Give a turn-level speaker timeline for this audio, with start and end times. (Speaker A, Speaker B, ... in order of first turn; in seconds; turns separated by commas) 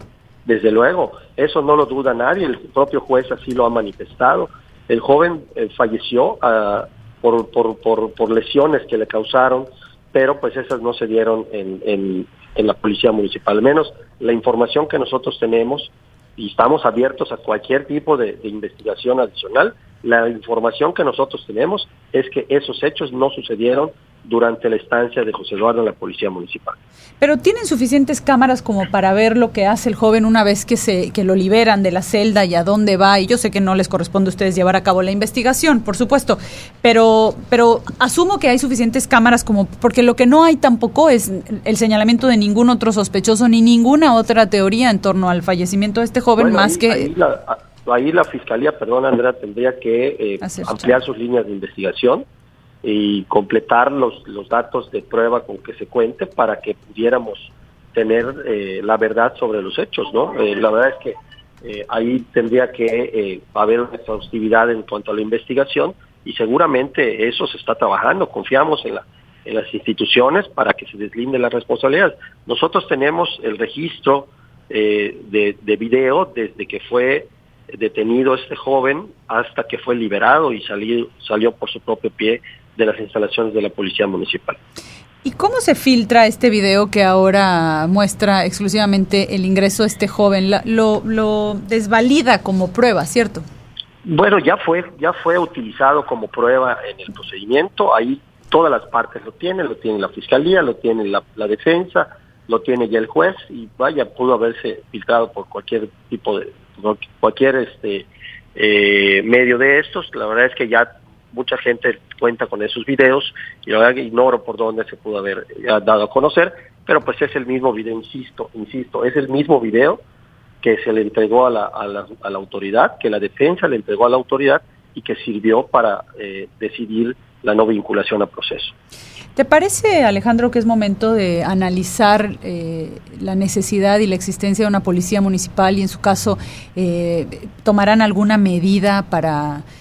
Speaker A: 0.5-26.8, Speaker B: 27.2-47.1, Speaker A: 46.4-52.3, Speaker B: 50.4-51.0, Speaker A: 52.8-84.6, Speaker B: 85.2-93.5, Speaker A: 94.0-120.0, Speaker A: 120.6-128.7, Speaker B: 129.4-139.6